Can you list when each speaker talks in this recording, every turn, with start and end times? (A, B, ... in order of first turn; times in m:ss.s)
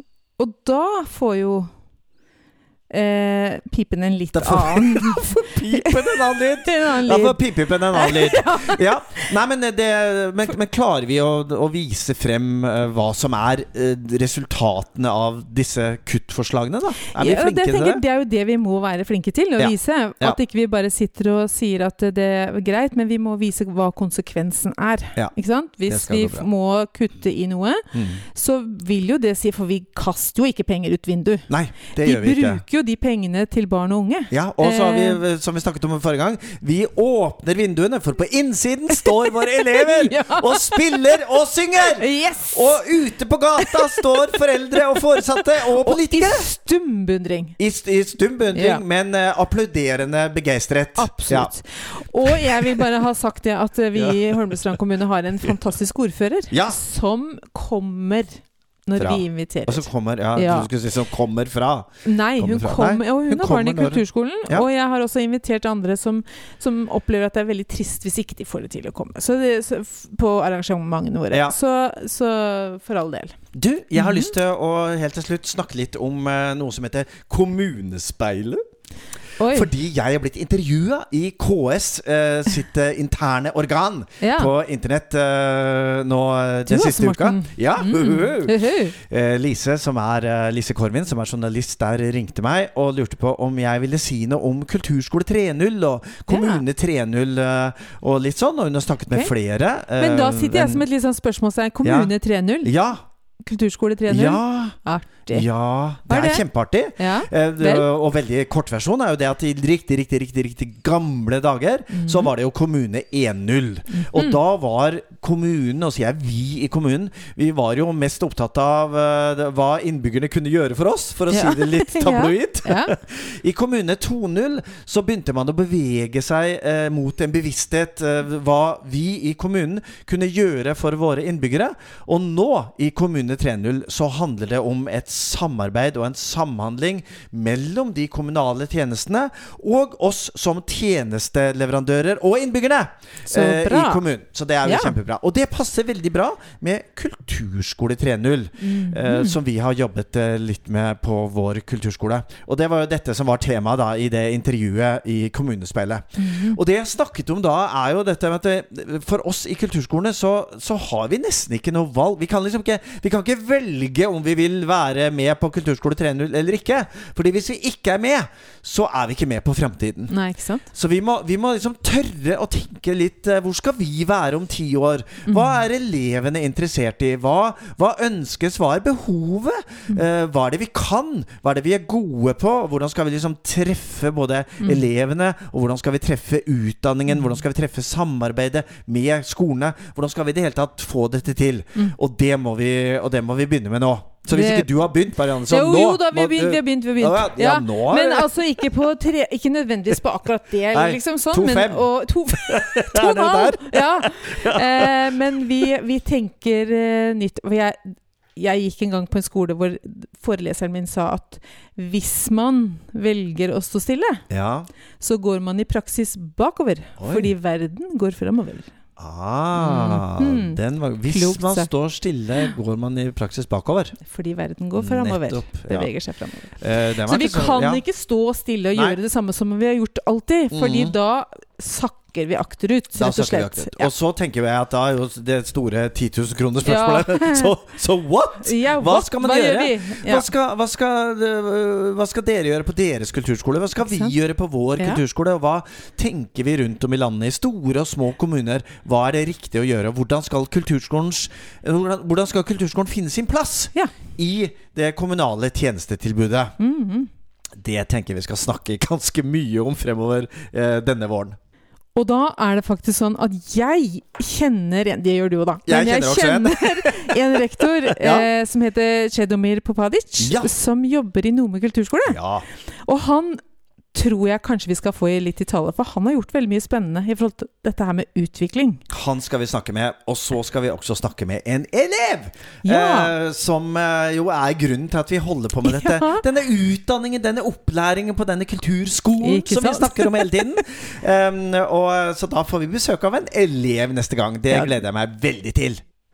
0:00.4-0:01.7 A
0:02.9-0:09.3 A
0:04.3-0:18.0 B
0:17.1-0:35.2 A
0:19.6-0:20.4 B
0:25.9-0:26.5 B
0:27.9-0:28.2 B
0:31.5-0:32.6 B
0:34.3-0:46.5 B
0:39.8-0:41.1 A
0:42.0-0:42.8 A
0:43.6-0:44.0 A
0:45.6-0:47.6 A
0:47.6-0:51.5 B
0:48.5-0:48.8 A
0:51.0-1:00.7 A
0:52.3-0:52.9 B
0:53.9-0:54.3 B
0:56.5-0:56.8 B
0:59.0-1:04.7 B
1:02.0-1:13.4 A
1:13.5-1:18.6 B
1:14.0-1:14.3 A
1:19.4-1:19.7 A
1:19.5-1:40.8 B
1:24.2-1:24.5 A
1:26.7-1:29.0 A
1:36.3-1:36.6 A
1:40.0-1:42.7 A
1:41.8-1:43.0 B
1:43.4-1:45.5 A
1:44.1-1:44.8 B
1:45.3-2:50.2 B
1:46.0-1:46.4 A
1:47.0-1:47.9 A
1:51.9-1:52.3 A
1:53.9-1:54.4 A
2:01.3-2:02.9 A
2:23.3-2:24.0 A
2:24.6-2:25.0 A
2:28.6-2:29.4 A
2:36.2-2:36.6 A
2:50.1-2:50.7 A
2:50.7-3:18.3 B
2:55.3-2:55.6 A
3:14.3-3:34.2 A
3:20.7-3:21.9 B
3:22.4-3:25.1 B
3:34.3-3:34.7 B
3:35.0-3:38.7 A
3:37.0-3:37.3 B
3:39.0-3:44.0 B
3:39.6-3:41.7 A
3:44.0-3:53.9 A
3:44.8-3:45.9 B
3:46.6-3:47.8 B
3:50.5-3:50.9 B
3:53.0-4:16.6 B
3:56.6-3:57.5 A
3:58.4-4:00.3 A
4:03.8-4:04.1 A
4:16.6-4:17.1 A
4:17.6-4:21.4 B
4:22.0-4:32.2 A
4:25.7-4:27.2 B
4:27.9-4:28.3 B
4:30.2-4:30.5 B
4:32.1-4:32.4 B
4:32.8-4:33.4 A
4:33.9-4:38.8 A
4:38.9-4:55.8 B
4:42.6-4:43.1 A
4:45.7-4:46.2 A
4:49.2-4:50.6 A